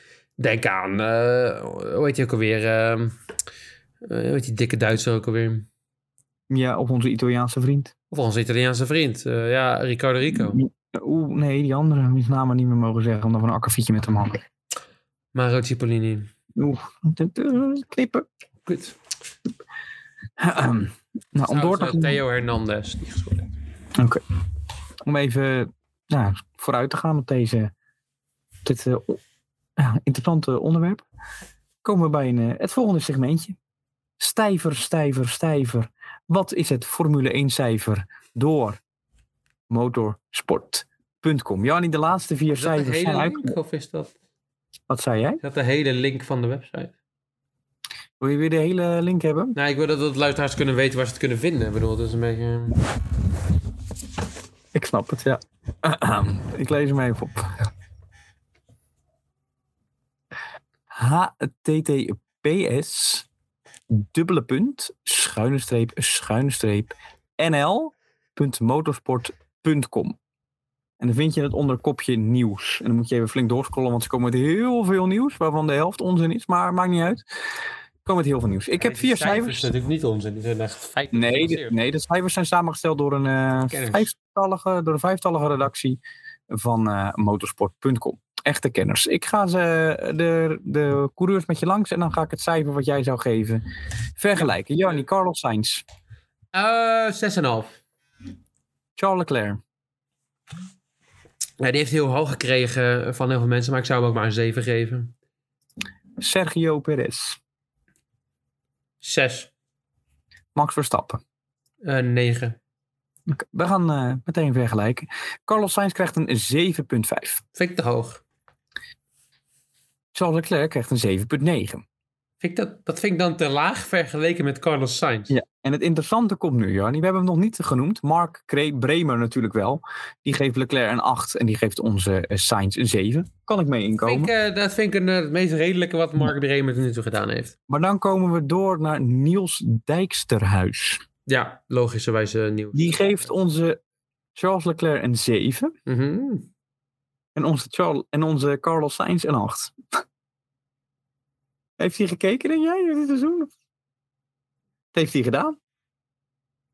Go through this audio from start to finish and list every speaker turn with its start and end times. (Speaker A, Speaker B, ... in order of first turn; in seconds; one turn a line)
Speaker A: 0.4-3.1
Speaker A: 4.0-5.7
Speaker B: 6.5-7.9
Speaker A: 8.1-10.6
Speaker B: 10.3-14.4
Speaker A: 15.3-16.3
Speaker B: 16.6-18.2
Speaker A: 18.6-18.9
Speaker B: 20.4-22.2
Speaker A: 21.4-23.5
Speaker B: 24.0-24.2
Speaker B: 25.0-27.7
Speaker B: 28.6-29.2
Speaker B: 29.8-31.0
Speaker B: 31.8-33.6
Speaker B: 34.2-38.8
Speaker B: 39.7-43.5
Speaker A: 42.6-44.1
Speaker B: 44.9-45.4
Speaker A: 45.4-46.9
Speaker B: 48.2-49.5
Speaker A: 49.5-52.8
Speaker B: 54.7-57.7
Speaker B: 60.9-63.3
Speaker B: 63.9-70.2
Speaker B: 71.0-77.2
Speaker B: 78.0-79.7
Speaker A: 78.8-81.8
Speaker B: 81.1-93.6
Speaker A: 83.7-84.1
Speaker B: 94.2-95.8
Speaker A: 96.5-97.8
Speaker B: 99.0-99.6
Speaker A: 101.6-105.1
Speaker B: 106.2-107.4
Speaker A: 109.0-109.5
Speaker B: 110.5-111.2
Speaker A: 111.8-112.6
Speaker B: 113.3-117.4
Speaker A: 117.5-118.2
Speaker B: 120.1-121.8
Speaker A: 122.4-125.3
Speaker B: 125.3-134.3
Speaker A: 134.0-137.5
Speaker B: 137.7-141.0
Speaker A: 141.3-143.3
Speaker B: 142.7-143.8
Speaker B: 144.3-145.7
Speaker A: 145.9-146.5
Speaker B: 147.3-150.0
Speaker B: 151.8-153.5
Speaker B: 154.9-155.6